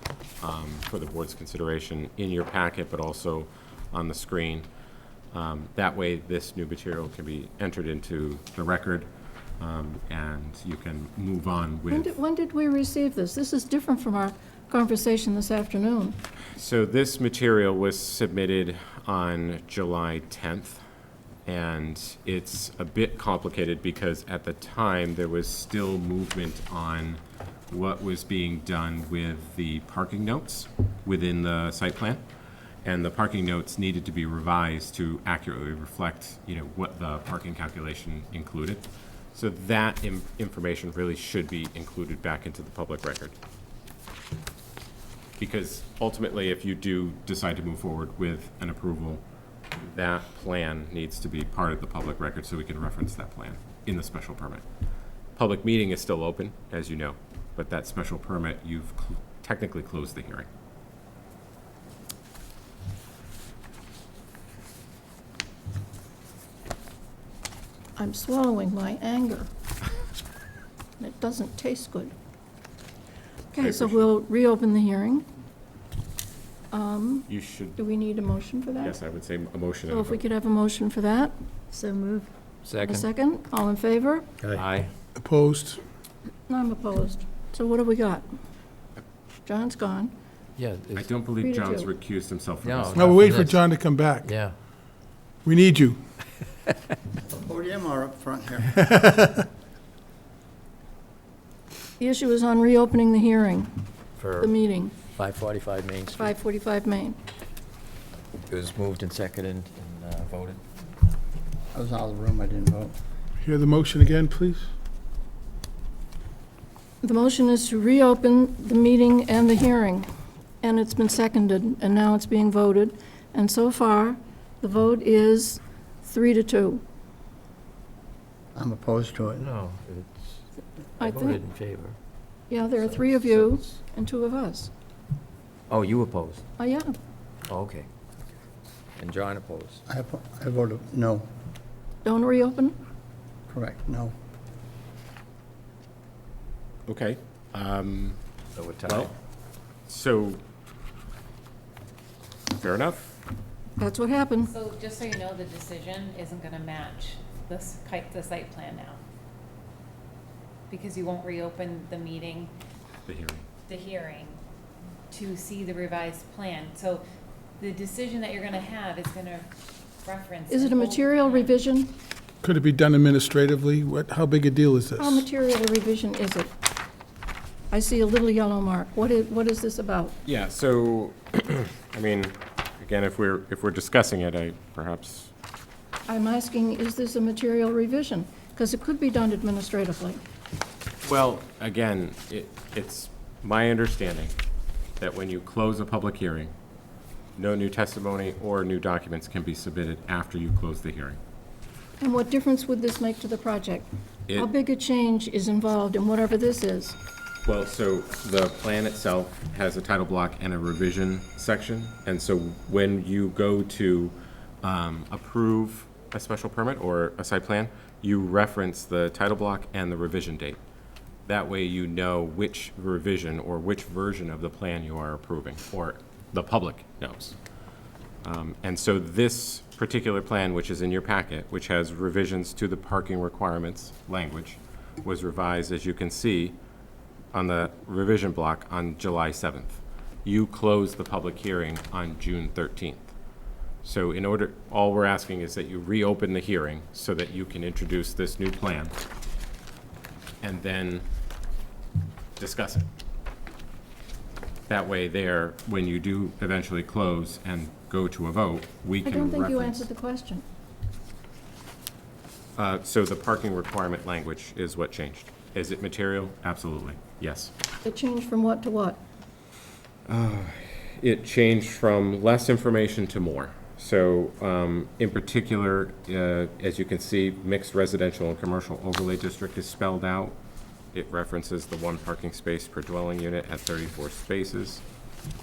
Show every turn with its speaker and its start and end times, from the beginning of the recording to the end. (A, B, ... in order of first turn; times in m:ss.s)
0:00.4-0:04.7 A
0:05.3-0:09.1 A
0:09.6-0:12.2 A
0:11.9-0:16.2 B
0:16.6-0:20.8 A
0:21.4-0:32.2 A
0:32.8-0:43.4 A
0:45.4-0:49.2 A
0:49.8-0:54.6 A
0:55.4-1:00.5 A
1:08.0-1:09.5 B
1:11.0-1:12.1 B
1:13.5-1:15.2 B
1:13.5-1:14.1 A
1:16.7-1:19.0 B
1:17.3-1:17.8 A
1:18.8-1:20.2 A
1:19.9-1:22.3 B
1:22.6-1:23.1 C
1:22.8-1:24.3 B
1:24.4-1:24.9 C
1:25.1-1:25.8 D
1:26.5-1:28.3 B
1:29.4-1:30.1 B
1:30.6-1:31.1 C
1:30.9-1:33.1 A
1:31.4-1:31.9 B
1:32.6-1:34.5 C
1:32.9-1:34.3 D
1:35.4-1:36.0 D
1:37.3-1:38.9 E
1:42.0-1:43.7 B
1:44.2-1:44.5 C
1:44.4-1:45.0 B
1:45.1-1:46.3 C
1:46.1-1:47.2 B
1:48.5-1:50.6 C
1:51.7-1:52.9 E
1:53.4-1:54.7 D
1:57.0-2:00.1 B
2:00.6-2:06.8 B
2:08.5-2:09.5 E
2:09.4-2:10.4 C
2:11.0-2:12.0 C
2:11.0-2:11.4 B
2:12.5-2:14.7 B
2:12.8-2:13.7 C
2:15.7-2:16.4 C
2:16.6-2:17.0 B
2:17.5-2:17.9 C
2:19.0-2:19.8 C
2:19.9-2:21.3 E
2:22.0-2:22.8 B
2:23.5-2:24.1 E
2:26.9-2:28.2 A
2:28.6-2:29.1 C
2:28.8-2:29.1 A
2:29.9-2:30.4 A
2:32.5-2:33.1 A
2:33.8-2:34.5 B
2:34.5-2:39.0 F
2:40.7-2:42.5 F
2:43.0-2:43.5 A
2:43.7-2:44.4 F
2:45.1-2:47.0 F
2:47.6-2:49.5 F
2:50.0-2:51.5 F
2:50.5-2:51.9 B
2:52.4-2:55.3 D
2:55.0-2:56.5 B
2:57.7-3:00.2 B
3:00.2-3:05.3 A
3:06.1-3:10.2 B
3:11.0-3:14.3 A
3:15.0-3:16.5 A
3:17.4-3:21.2 A
3:22.0-3:27.0 B
3:27.4-3:40.6 A
3:41.2-3:47.4 A
3:48.2-3:56.6 A
3:57.3-4:03.1 A
4:03.8-4:09.0 A
4:10.4-4:11.0 A
4:12.4-4:12.9 A
4:14.7-4:19.9 A
4:19.0-4:20.4 B
4:22.6-4:27.5 A
4:27.8-4:29.0 B
4:30.1-4:40.4 A
4:40.9-4:44.8 A